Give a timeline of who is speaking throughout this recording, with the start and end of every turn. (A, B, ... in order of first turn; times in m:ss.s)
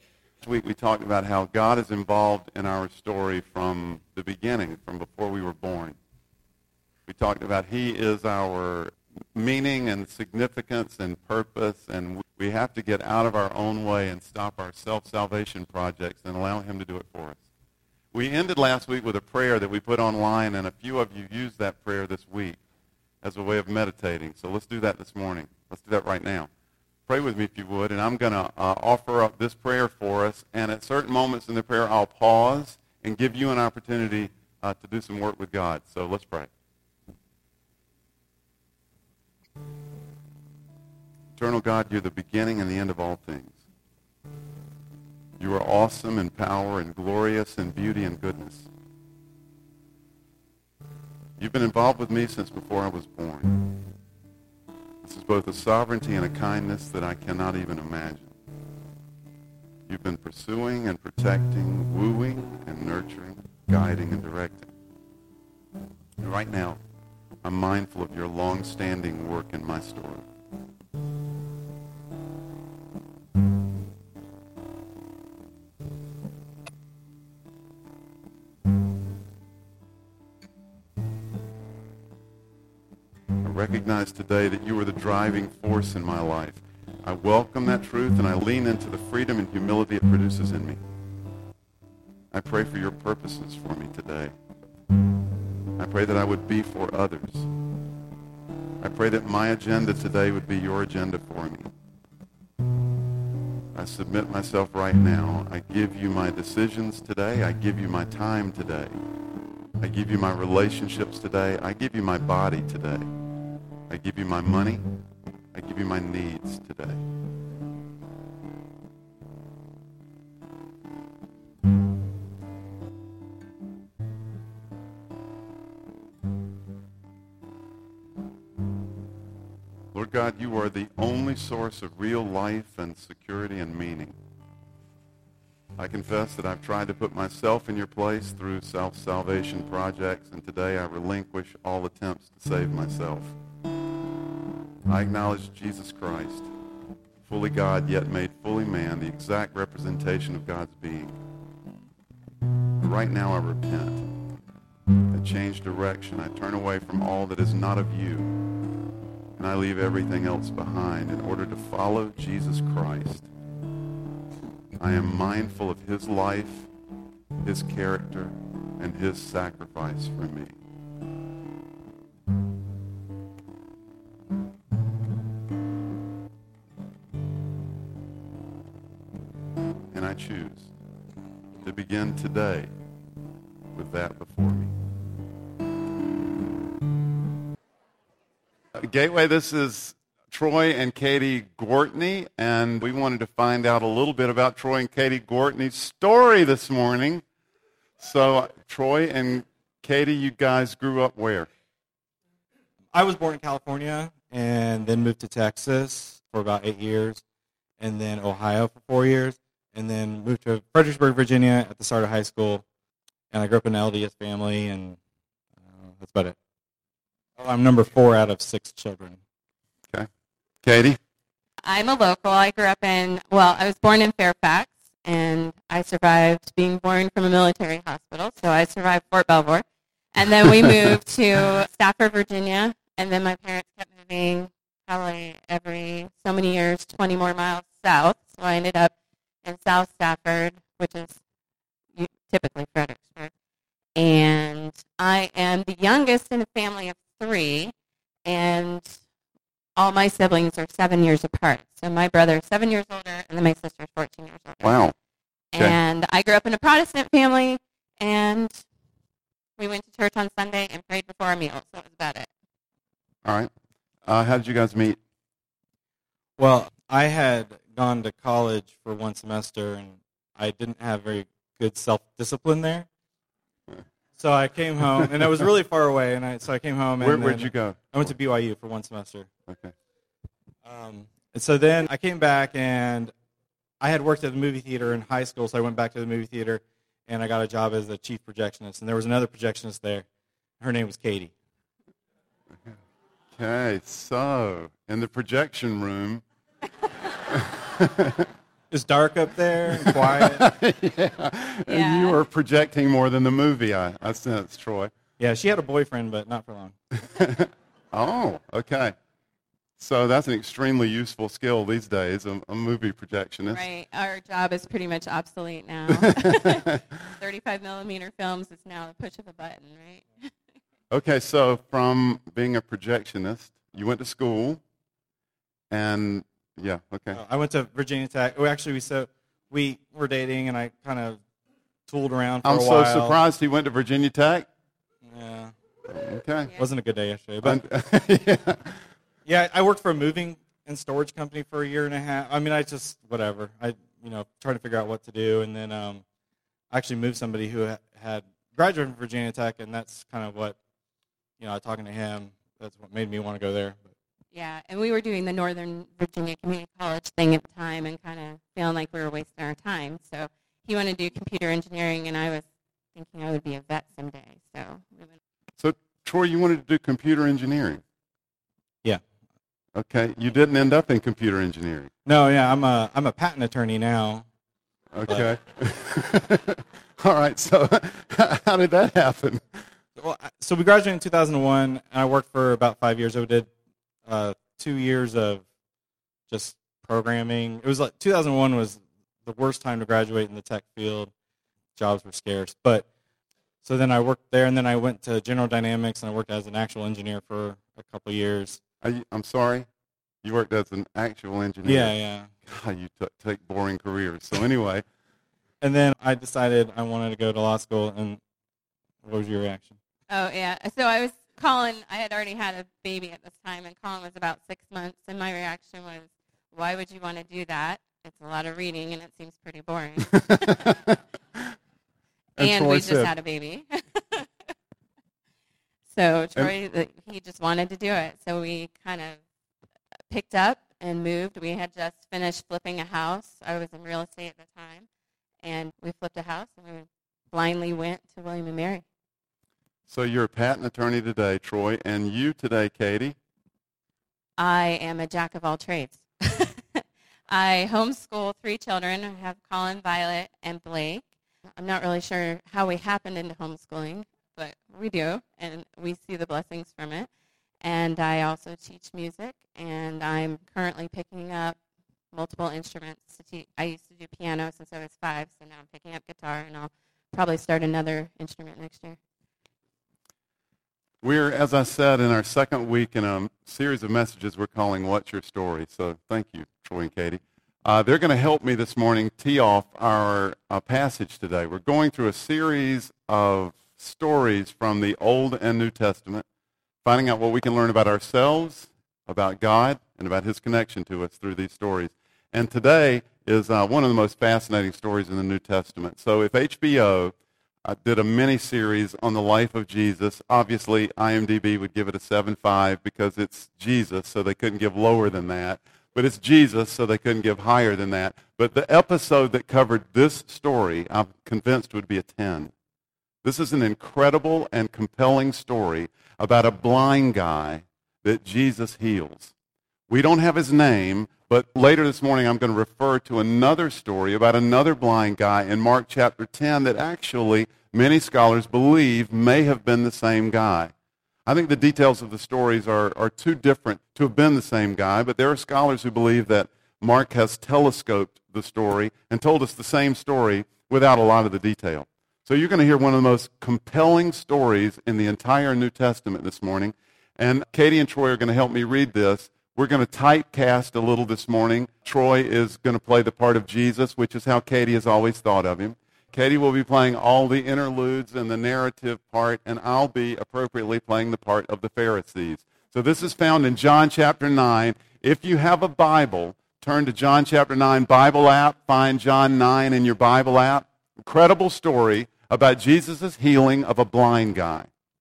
0:00.4-0:06.0 A
0:07.1-0:17.4 A
0:18.1-0:22.6 A
0:23.2-0:26.5 A
0:27.1-0:36.5 A
0:41.3-0:43.5 A
0:45.4-0:48.7 A
0:51.4-0:53.6 A
0:55.0-0:58.3 A
0:59.9-1:04.7 A
1:06.2-1:06.8 A
1:07.4-1:10.2 A
1:23.4-1:30.8 A
1:32.3-1:34.3 A
1:35.8-1:37.5 A
1:38.8-1:41.7 A
1:43.7-1:48.9 A
1:49.8-1:53.1 A
1:53.9-1:54.8 A
1:55.5-1:57.0 A
2:09.9-2:14.1 A
2:15.8-2:23.3 A
2:24.9-2:26.5 A
2:27.2-2:31.1 A
2:32.8-2:34.1 A
2:35.1-2:38.3 A
2:39.4-2:43.3 A
2:44.8-2:46.7 A
2:47.4-2:50.5 A
2:59.9-3:00.7 A
3:01.6-3:02.7 A
3:03.7-3:04.7 A
3:08.8-3:17.2 A
3:18.0-3:21.5 A
3:22.9-3:27.2 B
3:27.8-3:32.6 B
3:33.3-3:35.0 B
3:35.6-3:36.4 B
3:37.4-3:39.2 B
3:40.6-3:41.0 A
3:41.6-4:01.2 C
4:02.0-4:03.3 C
4:04.0-4:07.7 C
4:08.2-4:08.9 C
4:09.8-4:14.8 C
4:14.6-4:14.9 A
4:15.5-4:18.6 C
4:19.6-4:22.3 C
4:23.2-4:23.5 A
4:24.0-4:25.0 A
4:26.4-4:32.9 B
4:34.2-4:39.3 B
4:37.0-4:37.9 A
4:39.5-4:39.7 A
4:40.6-4:43.1 B
4:43.8-4:50.0 B
4:50.6-4:51.3 B
4:53.3-4:56.2 A
4:57.3-4:58.3 A
4:58.7-5:00.5 B
4:59.8-5:04.9 A
5:01.7-5:02.2 C
5:05.2-5:06.7 B
5:07.1-5:08.9 A
5:09.8-5:13.6 A
5:13.5-5:20.3 C
5:16.0-5:16.8 A
5:20.9-5:24.6 A
5:25.7-5:27.2 A
5:27.1-5:31.2 B
5:31.9-5:33.2 B
5:32.4-5:34.5 A
5:35.0-5:35.5 B
5:35.9-5:36.5 A
5:36.5-5:37.6 B
5:37.4-5:38.8 A
5:39.2-5:46.0 B
5:46.7-5:50.6 B
5:51.4-5:53.9 B
5:54.3-6:02.4 C
6:02.9-6:05.2 C
6:05.6-6:07.8 A
6:09.7-6:11.9 A
6:12.0-6:14.3 B
6:14.9-6:19.6 A
6:20.0-6:23.5 B
6:24.0-6:25.4 B
6:26.3-6:31.1 B
6:31.8-6:32.8 B
6:33.6-6:38.6 B
6:38.8-6:39.7 A
6:40.2-6:44.8 A
6:41.6-6:42.3 B
6:45.6-6:48.2 B
6:49.0-6:49.8 B
6:50.1-7:00.8 C
7:00.2-7:01.0 A
7:02.4-7:03.1 A
7:02.4-7:04.3 C
7:05.9-7:09.2 C
7:10.1-7:14.9 C
7:15.4-7:18.8 C
7:19.9-7:23.2 A
7:24.4-7:37.1 C
7:37.6-7:41.6 C
7:42.1-7:49.0 C
7:51.0-8:06.2 A
8:06.8-8:32.5 A
8:33.2-8:39.3 A
8:39.9-8:50.7 A
8:51.3-9:34.7 A